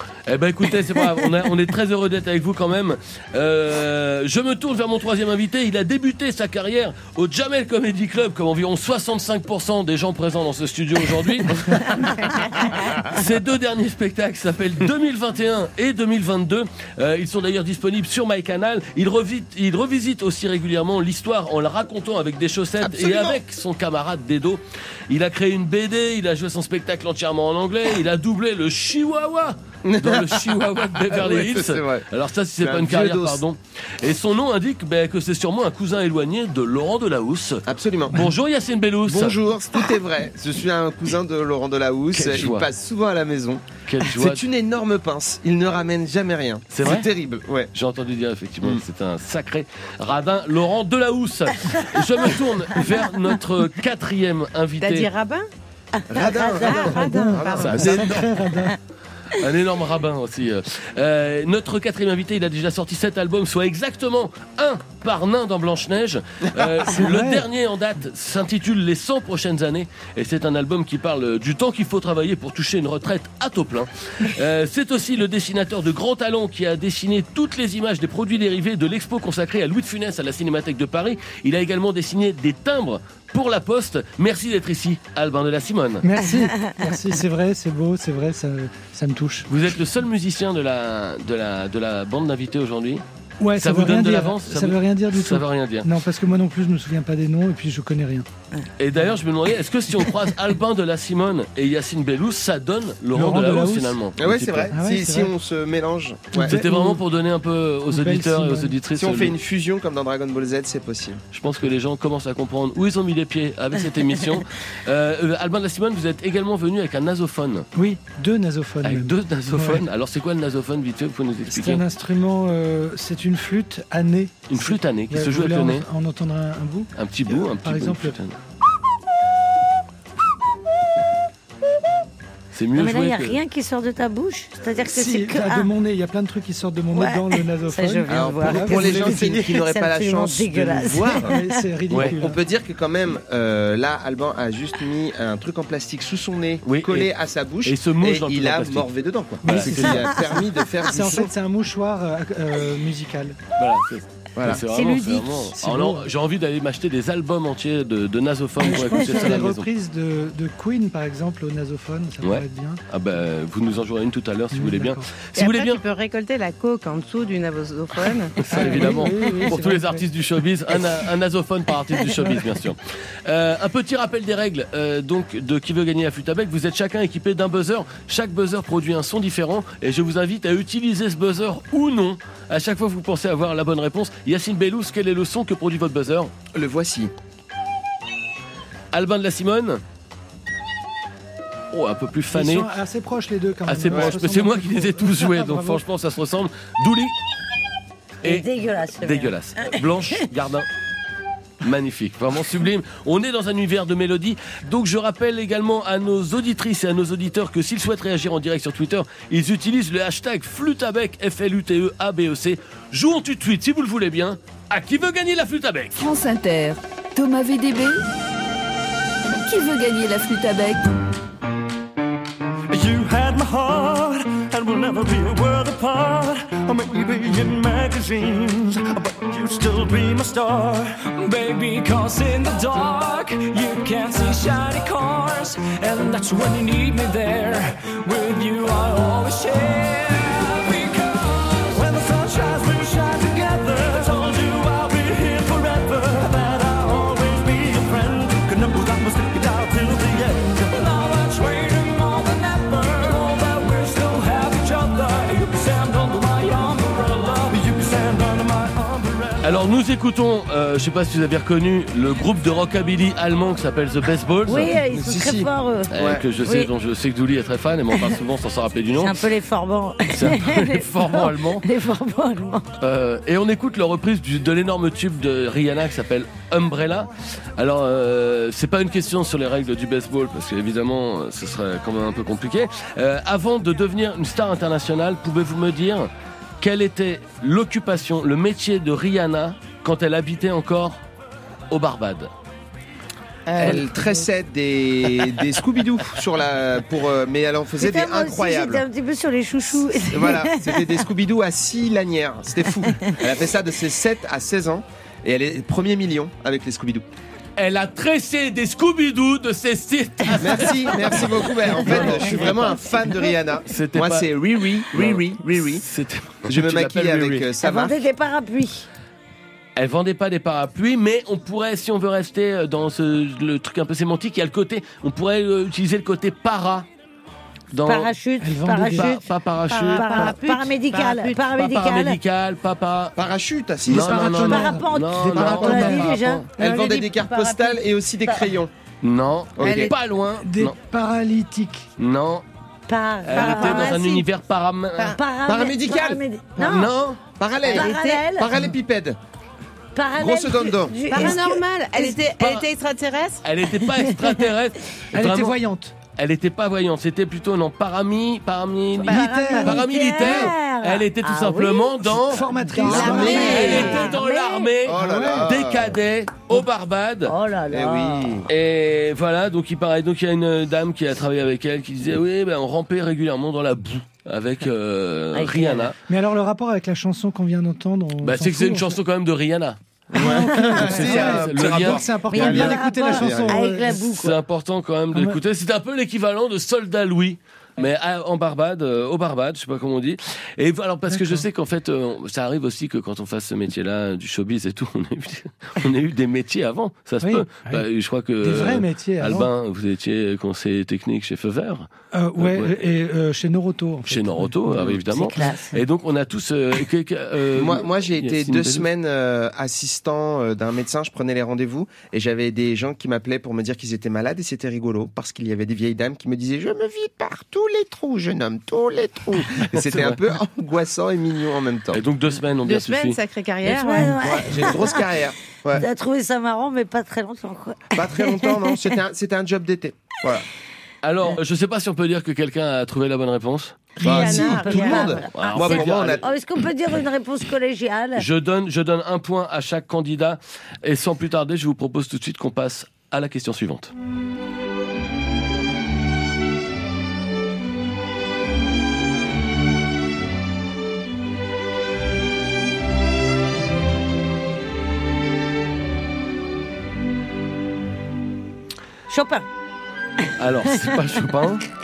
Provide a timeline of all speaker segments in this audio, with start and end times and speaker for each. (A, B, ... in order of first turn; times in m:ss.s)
0:00.3-0:39.4 A
0:22.8-0:23.4 B
0:29.8-0:32.0 B
0:32.6-0:33.4 B
0:37.6-0:38.2 B
0:39.1-0:47.7 B
0:42.1-0:42.6 A
0:43.9-0:44.4 A
0:46.7-0:47.1 A
0:47.7-0:55.1 A
0:54.8-0:55.4 C
0:56.0-0:57.4 D
0:56.1-0:58.2 B
0:56.6-0:58.2 C
0:57.0-0:58.8 E
0:57.6-0:58.1 A
0:59.3-1:26.0 A
1:06.9-1:07.4 E
1:26.0-1:29.5 E
1:29.5-1:33.0 A
1:33.4-1:38.2 E
1:33.6-1:35.9 A
1:38.8-1:44.7 A
1:43.1-1:44.0 E
1:44.2-1:46.6 B
1:44.7-1:45.3 E
1:46.3-1:47.0 E
1:46.4-1:49.3 A
1:47.9-1:48.7 E
1:48.9-1:51.2 B
1:51.3-1:57.7 A
1:57.7-1:59.8 E
1:58.8-2:01.8 A
2:01.5-2:08.1 E
2:04.5-2:05.8 A
2:07.0-2:08.4 A
2:12.5-2:13.4 A
2:12.7-2:15.7 D
2:14.9-2:19.5 E
2:16.9-2:21.5 D
2:18.1-2:21.3 B
2:21.2-2:22.4 E
2:22.0-2:31.3 B
2:26.6-2:27.1 A
2:27.6-2:28.9 A
2:29.4-2:30.1 A
2:29.4-2:30.2 E
2:30.8-2:33.4 E
2:33.6-2:39.7 A
2:34.4-2:34.6 B
2:34.6-2:35.5 D
2:35.5-2:36.1 E
2:38.6-2:42.8 E
2:42.2-2:45.8 A
2:44.5-2:45.1 E
2:45.3-2:49.0 C
2:48.4-3:06.3 A
2:48.5-2:50.0 E
3:06.5-3:07.1 B
3:08.9-3:09.8 A
3:11.7-3:12.7 A
3:12.3-3:15.8 E
3:13.6-3:17.1 A
3:13.9-3:14.2 B
3:18.2-3:20.2 D
3:19.0-3:20.7 A
3:21.6-3:36.0 A
3:36.0-3:38.0 F
3:39.4-3:40.8 F
3:42.7-3:51.0 G
3:51.2-4:01.8 H
4:01.7-4:10.8 G
4:10.7-4:17.6 H
4:17.5-4:19.6 G
4:19.4-4:24.7 A
4:24.5-4:25.9 D
4:24.9-4:26.2 B
4:25.9-4:29.2 A
4:26.4-4:26.7 D
4:28.9-4:32.6 D
4:30.1-4:31.6 A
4:32.8-4:46.1 A
4:46.6-4:51.0 A
4:51.7-4:52.3 A
4:53.5-4:53.9 C
4:53.6-4:58.8 B
4:57.8-5:00.9 D
5:00.1-5:07.0 B
5:07.6-5:12.9 A
5:10.4-5:15.8 B
5:13.7-5:14.3 A
5:14.9-5:17.5 A
5:16.4-5:18.0 B
5:17.6-5:18.9 D
5:19.8-5:26.9 A
5:27.7-5:28.1 A
5:27.8-5:29.2 D
5:28.4-5:29.2 E
5:28.8-5:30.3 A
5:29.7-5:31.5 C
5:29.8-5:32.2 D
5:31.5-5:33.1 A
5:33.2-5:34.5 B
5:33.9-5:36.4 A
5:33.9-5:36.2 E
5:34.4-5:38.5 D
5:35.4-5:38.7 B
5:39.0-5:40.8 A
5:39.6-5:39.9 B
5:39.6-5:40.0 C
5:40.4-5:41.9 E
5:42.0-5:42.4 A
5:42.9-5:44.0 D
5:43.2-5:45.2 A
5:43.3-5:44.2 C
5:45.1-5:46.9 D
5:45.4-5:46.2 B
5:46.6-5:47.2 A
5:47.4-5:49.2 B
5:47.6-5:48.2 C
5:47.7-5:48.5 D
5:49.9-5:52.2 D
5:50.2-5:51.3 B
5:51.1-5:53.4 C
5:52.4-5:52.7 A
5:53.4-5:55.6 A
5:55.1-5:55.9 E
5:56.2-6:07.3 A
5:59.0-6:04.7 D
5:59.1-6:00.5 E
6:02.1-6:03.9 E
6:02.8-6:04.2 C
6:02.9-6:03.8 B
6:04.8-6:06.0 B
6:04.9-6:05.5 E
6:07.3-6:08.4 D
6:07.7-6:08.5 B
6:08.5-6:16.0 A
6:15.3-6:15.9 D
6:16.1-6:19.0 E
6:18.2-6:19.8 A
6:20.1-6:23.7 B
6:20.1-6:24.2 E
6:20.7-6:22.0 A
6:22.3-6:24.4 D
6:24.0-6:42.8 A
6:25.1-6:25.4 E
6:31.1-6:31.4 E
6:37.2-6:37.8 E
6:38.4-6:39.5 E
6:42.1-6:45.0 E
6:44.1-6:48.8 A
6:45.1-6:45.8 D
6:47.5-7:02.0 B
6:59.8-7:00.2 A
7:01.9-7:03.2 A
7:02.6-7:04.3 C
7:03.6-7:05.0 D
7:04.2-7:05.8 B
7:05.7-7:08.7 D
7:07.9-7:10.4 B
7:11.0-7:13.9 A
7:14.0-7:15.2 C
7:14.0-7:16.3 B
7:14.0-7:18.2 D
7:15.3-7:16.2 A
7:18.2-7:23.9 A
7:39.1-7:39.4 D
7:40.4-7:41.6 A